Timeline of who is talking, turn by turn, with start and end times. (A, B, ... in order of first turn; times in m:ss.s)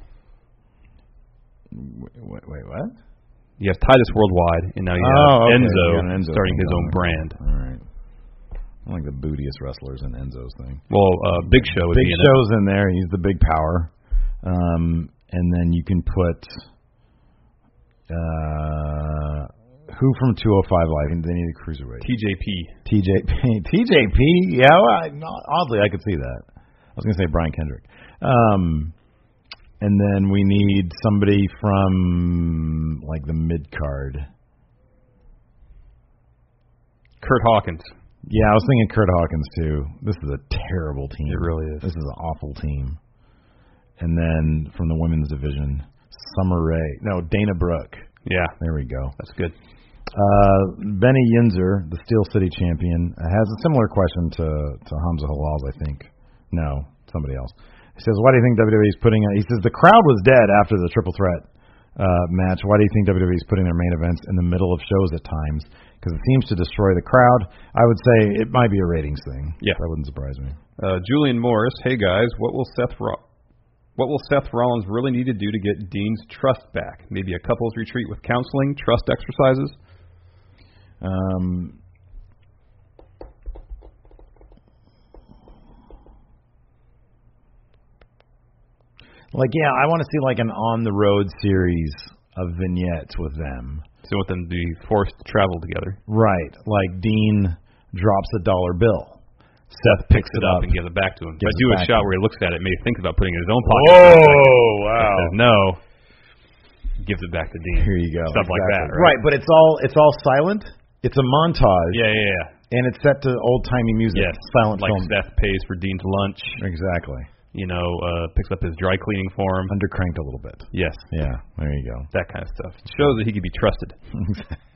0:01.7-0:03.0 A
0:03.6-0:07.4 B
0:05.0-0:07.8 A
0:08.8-0:10.8 A
0:10.9-0:12.4 B
0:11.4-0:13.9 A
0:14.4-0:16.6 A
0:18.1-0:22.1 A
0:22.0-0:22.7 B
0:22.8-0:26.4 A
0:27.0-0:28.9 A
0:29.8-0:34.3 A
0:37.2-0:37.9 B
0:38.2-0:43.0 A
0:41.3-0:41.9 B
0:44.0-0:48.1 A
0:48.2-0:48.6 B
0:48.6-0:49.1 A
0:49.2-0:49.5 B
0:50.1-1:01.4 A
1:02.0-1:10.6 A
1:10.8-1:13.2 B
1:14.0-1:19.7 B
1:21.0-1:21.8 A
1:29.3-1:33.8 A
1:34.0-1:36.0 B
1:36.1-1:39.2 A
1:39.7-1:40.7 A
1:39.8-1:45.8 B
1:41.4-1:42.0 A
1:43.6-1:45.4 A
1:47.0-1:49.2 B
1:47.8-1:52.0 A
1:51.9-1:52.5 B
1:52.7-1:55.1 A
1:54.1-1:56.6 B
1:56.6-1:57.3 A
1:57.5-1:59.7 B
1:59.7-2:02.1 A
2:00.7-2:01.1 B
2:02.1-2:04.0 B
2:04.1-2:04.6 A